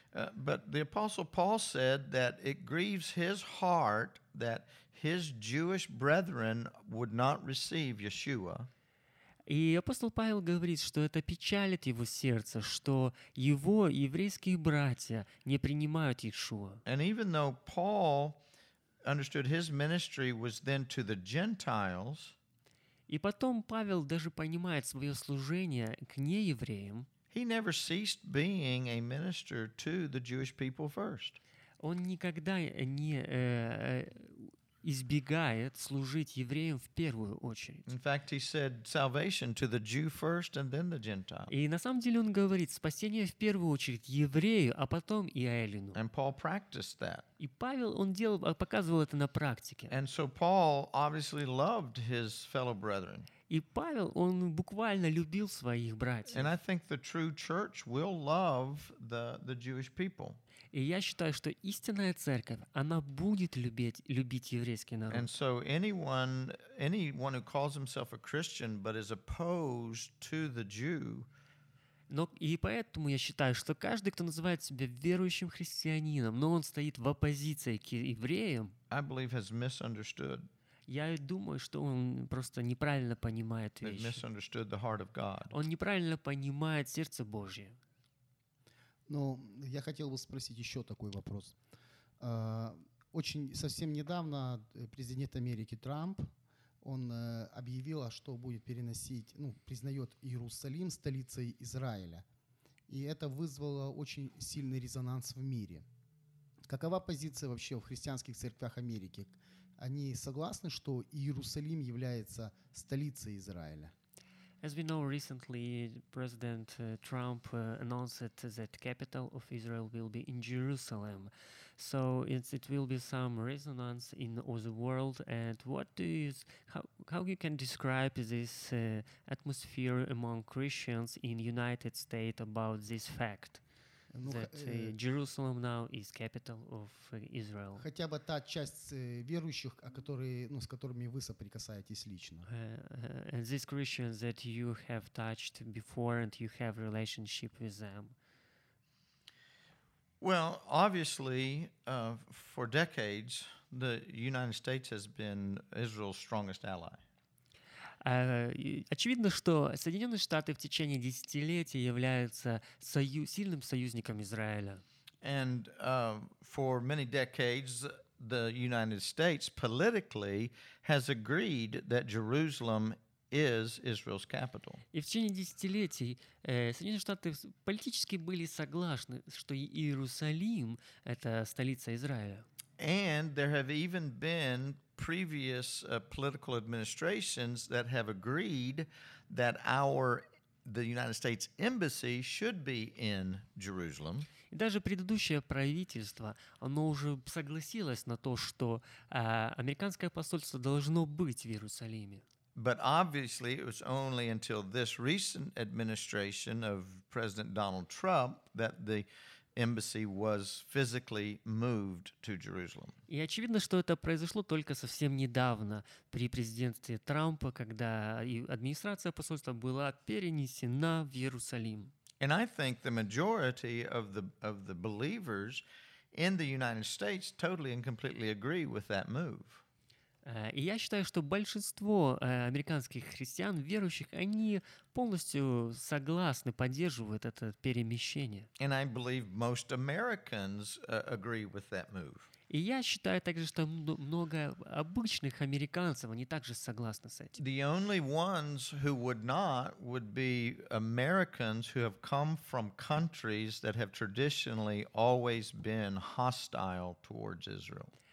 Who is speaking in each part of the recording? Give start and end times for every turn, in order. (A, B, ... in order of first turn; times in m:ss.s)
0:00.1-0:08.7 A
0:09.5-0:16.8 B
0:16.8-0:18.4 A
0:19.0-0:22.3 A
0:23.1-0:27.1 B
0:27.3-0:31.4 A
0:31.8-0:37.9 B
0:37.9-0:41.5 A
0:41.5-0:46.0 B
0:45.9-0:47.3 A
0:47.4-0:49.9 B
0:49.9-0:53.3 A
0:53.5-0:56.5 B
0:56.3-1:00.4 A
1:00.7-1:05.3 B
1:05.1-1:11.3 A
1:12.1-1:18.7 B
1:18.9-1:20.5 A
1:20.9-1:24.2 B
1:23.8-1:25.5 A
1:25.5-1:27.8 B
1:29.1-1:31.6 C
1:32.2-1:36.3 C
1:36.8-1:42.2 C
1:42.9-1:45.8 C
1:46.7-1:53.9 C
1:54.6-2:13.6 B
2:14.1-2:15.0 C
2:14.2-2:17.8 B
2:17.8-2:22.5 C
2:22.5-2:28.1 B
2:30.2-2:37.0 A
2:38.0-2:44.8 B
2:45.2-2:54.8 A
2:54.9-3:02.4 B
3:02.8-3:14.3 A
3:14.5-3:22.2 B
3:22.6-3:33.0 A
3:33.1-3:41.9 B
3:42.2-3:49.6 A
3:50.2-3:58.5 B
3:58.6-4:02.3 A
4:02.5-4:07.4 B
4:07.4-4:17.9 A